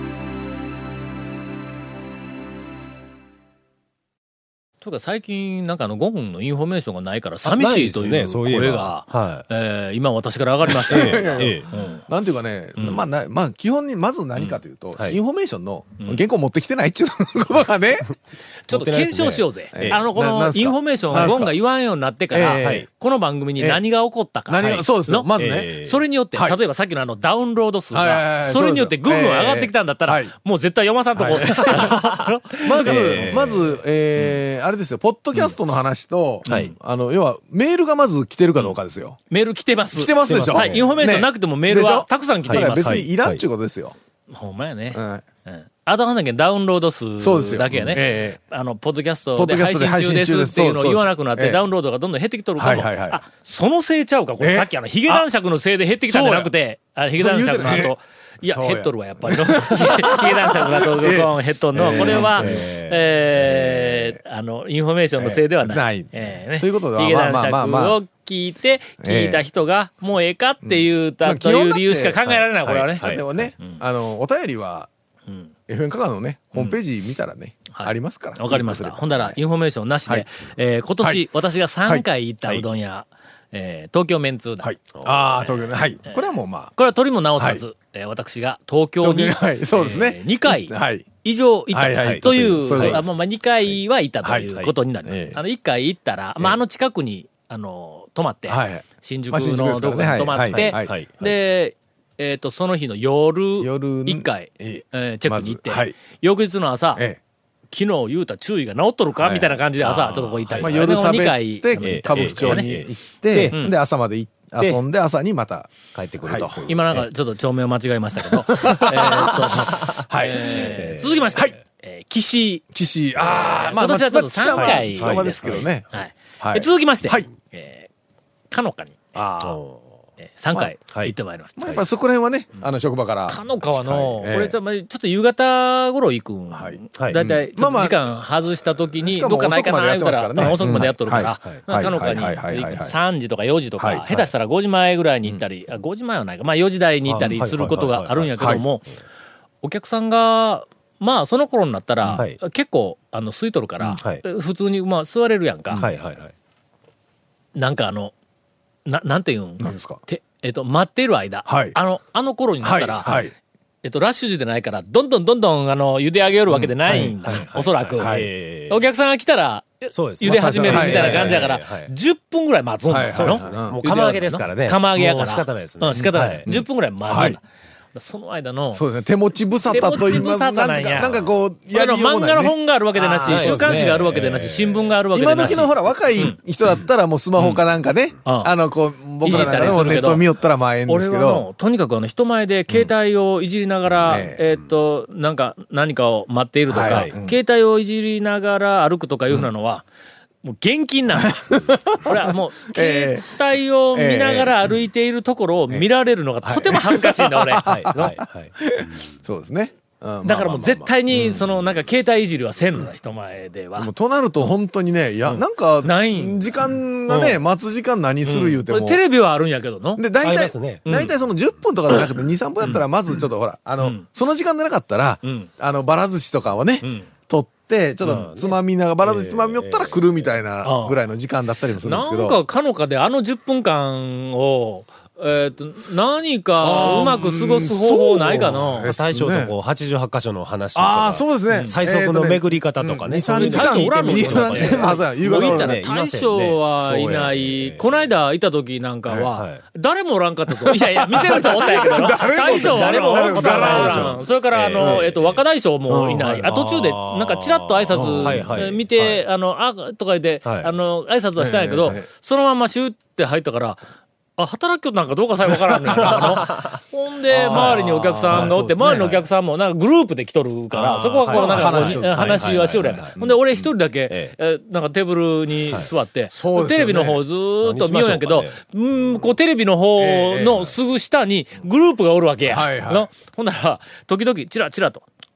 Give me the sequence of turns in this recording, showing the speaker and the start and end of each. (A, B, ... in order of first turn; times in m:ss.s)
0:04.8-0:12.0 A
0:07.4-0:09.5 B
0:10.9-0:18.1 C
0:10.9-0:11.7 B
0:12.8-0:13.0 A
0:18.7-0:33.4 A
0:18.7-0:20.0 B
0:19.7-0:21.6 C
0:22.3-0:22.9 C
0:22.6-0:22.9 B
0:24.5-0:25.7 C
0:25.4-0:26.0 B
0:27.9-0:30.3 C
0:31.2-0:32.0 C
0:31.3-0:32.3 B
0:32.6-0:39.2 C
0:32.8-0:33.8 B
0:36.5-0:36.7 B
0:36.5-0:36.7 A
0:39.3-0:43.0 A
0:39.9-0:44.0 C
0:40.3-0:40.9 B
0:42.5-0:43.4 B
0:44.3-1:13.8 A
0:44.9-0:45.2 C
0:47.2-0:48.4 C
0:49.4-0:51.6 C
0:52.6-0:53.2 C
0:54.4-0:55.3 C
0:56.0-0:56.5 C
0:57.2-1:02.8 C
1:01.8-1:03.0 B
1:03.5-1:04.2 C
1:05.2-1:08.0 C
1:09.0-1:09.4 C
1:10.6-1:14.9 C
1:12.6-1:13.5 B
1:15.3-1:15.5 A
1:15.7-1:19.4 C
1:17.7-1:24.7 A
1:21.8-1:22.6 C
1:24.6-1:26.7 C
1:25.4-1:47.0 A
1:29.0-1:31.1 C
1:31.7-1:33.1 C
1:32.0-1:33.0 B
1:34.2-1:34.5 C
1:35.0-1:35.4 C
1:38.5-1:41.0 C
1:40.5-1:41.3 B
1:43.6-1:46.0 C
1:47.7-1:52.7 A
1:49.2-1:49.6 C
1:49.8-1:50.8 B
1:50.6-1:56.6 C
1:51.8-1:53.6 B
1:55.9-1:57.1 B
1:56.7-2:02.6 A
1:58.5-2:01.6 C
1:58.9-2:01.4 B
2:02.7-2:05.9 C
2:03.2-2:07.9 A
2:04.5-2:05.7 B
2:06.4-2:07.3 C
2:08.5-2:09.2 A
2:09.2-2:09.6 C
2:09.4-2:09.8 B
2:10.2-2:11.8 A
2:10.9-2:11.1 B
2:11.6-2:14.6 C
2:13.3-2:28.9 A
2:16.5-2:23.0 C
2:17.0-2:17.2 B
2:20.4-2:20.9 B
2:23.8-2:24.0 C
2:27.1-2:28.6 B
2:28.4-2:28.6 C
2:29.6-2:35.8 A
2:32.1-2:32.4 B
2:33.9-2:34.2 B
2:35.8-2:36.3 B
2:37.6-2:38.1 A
2:38.9-2:43.2 A
2:39.6-2:40.0 C
2:41.5-2:41.8 C
2:42.6-2:43.3 C
2:43.8-2:57.4 A
2:46.6-2:47.5 C
2:46.8-2:48.8 B
2:48.0-2:48.3 C
2:49.9-2:51.9 B
2:50.2-2:51.5 C
2:52.9-2:53.8 C
2:53.1-2:56.5 B
2:56.0-2:57.4 C
2:57.9-2:58.8 A
2:58.7-3:04.1 C
2:59.7-3:06.4 A
3:03.2-3:05.7 B
3:05.1-3:11.4 C
3:08.2-3:08.5 A
3:09.2-3:10.2 A
3:09.3-3:10.0 B
3:10.9-3:19.9 A
3:14.1-3:14.4 C
3:16.7-3:17.4 C
3:16.7-3:17.2 B
3:20.4-3:28.2 A
3:21.2-3:23.3 C
3:23.9-3:24.6 C
3:26.4-3:31.4 C
3:27.7-3:29.0 B
3:30.2-3:33.9 A
3:33.8-3:39.0 C
3:35.3-3:36.5 A
3:37.1-3:37.4 A
3:38.3-3:40.0 A
3:40.0-3:52.4 C
3:40.2-3:40.8 B
3:40.9-3:41.1 A
3:43.8-3:44.0 A
3:45.2-3:45.5 A
3:46.8-3:47.1 A
3:48.0-3:50.2 B
3:50.6-3:51.0 A
3:51.8-3:58.9 A
3:56.6-3:59.5 C
3:58.8-4:08.0 B
4:00.8-4:05.8 C
4:01.5-4:01.8 A
4:03.3-4:23.8 A
4:06.8-4:07.3 C
4:09.4-4:09.6 B
4:10.6-4:14.2 C
4:12.1-4:15.4 B
4:14.8-4:15.0 C
4:15.9-4:16.4 C
4:16.2-4:19.2 B
4:17.9-4:18.6 C
4:20.4-4:20.7 B
4:21.4-4:22.1 C
4:24.4-4:45.1 A
4:25.9-4:26.5 C
4:26.0-4:26.8 B
4:27.3-4:29.2 C
4:27.5-4:29.2 B
4:30.7-4:33.4 B
4:31.3-4:33.7 C
4:36.3-4:37.2 C
4:37.6-4:39.3 B
4:40.0-4:40.7 C
4:42.5-4:43.1 C